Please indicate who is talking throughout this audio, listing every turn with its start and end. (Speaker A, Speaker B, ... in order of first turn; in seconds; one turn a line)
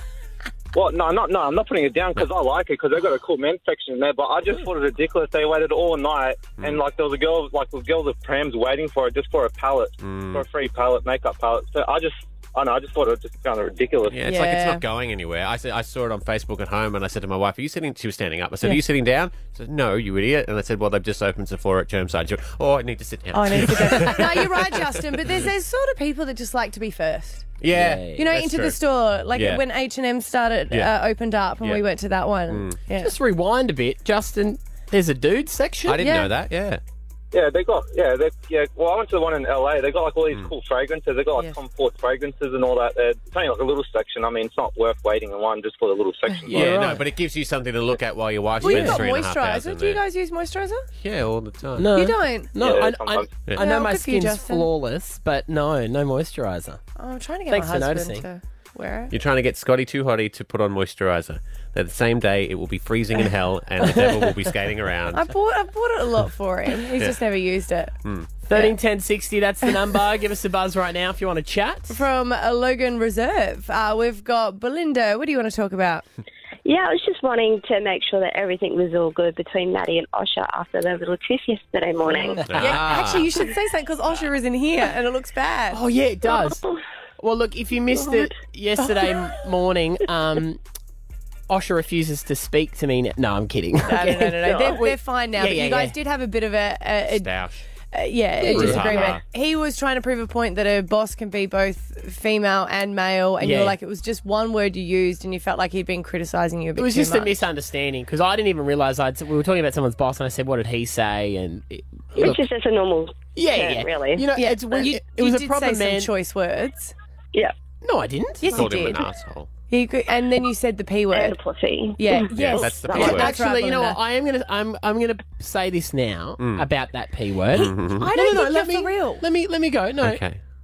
Speaker A: 0.7-14.2
Speaker B: 10.0-10.4
Speaker B: 14.1-25.0
Speaker C: 14.2-14.8
Speaker C: 23.3-27.5
Speaker B: 27.6-28.8
Speaker D: 27.7-28.2
Speaker C: 28.1-33.1
Speaker B: 29.3-29.6
Speaker B: 32.5-32.8
Speaker D: 33.0-36.1
Speaker B: 35.8-36.8
Speaker C: 36.0-36.3
Speaker A: 37.3-46.7
Speaker D: 46.5-47.0
Speaker B: 46.5-50.0
Speaker C: 48.6-50.8
Speaker D: 48.6-49.0
Speaker B: 51.0-51.9
Speaker D: 51.8-56.8
Speaker C: 51.9-52.5
Speaker A: 52.6-53.3
Speaker C: 53.5-54.7
Speaker C: 57.0-59.1
Speaker D: 57.5-58.2
Speaker B: 59.1-65.3
Speaker C: 65.1-67.9
Speaker B: 68.0-68.3
Speaker D: 68.5-72.0
Speaker C: 71.9-76.0
Speaker E: 76.6-82.5
Speaker C: 82.1-85.8
Speaker D: 82.3-82.8
Speaker B: 82.5-83.4
Speaker D: 85.7-86.6
Speaker E: 86.3-86.7
Speaker D: 87.2-90.6
Speaker E: 88.0-88.3
Speaker D: 91.5-95.9
Speaker C: 93.8-97.3
Speaker B: 97.1-97.6
Speaker C: 97.9-107.4
Speaker D: 98.4-99.1
Speaker B: 98.5-99.2
Speaker D: 103.4-103.8
Speaker D: 106.8-112.4
Speaker E: 112.2-114.2
Speaker D: 113.3-116.1
Speaker C: 114.3-116.9
Speaker D: 117.8-118.6
Speaker C: 118.4-119.0
Speaker B: 118.5-119.5
Speaker C: 119.7-121.4
Speaker E: 121.1-123.2
Speaker C: 122.0-124.0
Speaker B: 122.3-123.4
Speaker D: 122.9-130.2
Speaker B: 126.4-126.7
Speaker B: 127.5-128.1
Speaker C: 127.5-129.2
Speaker B: 130.0-130.4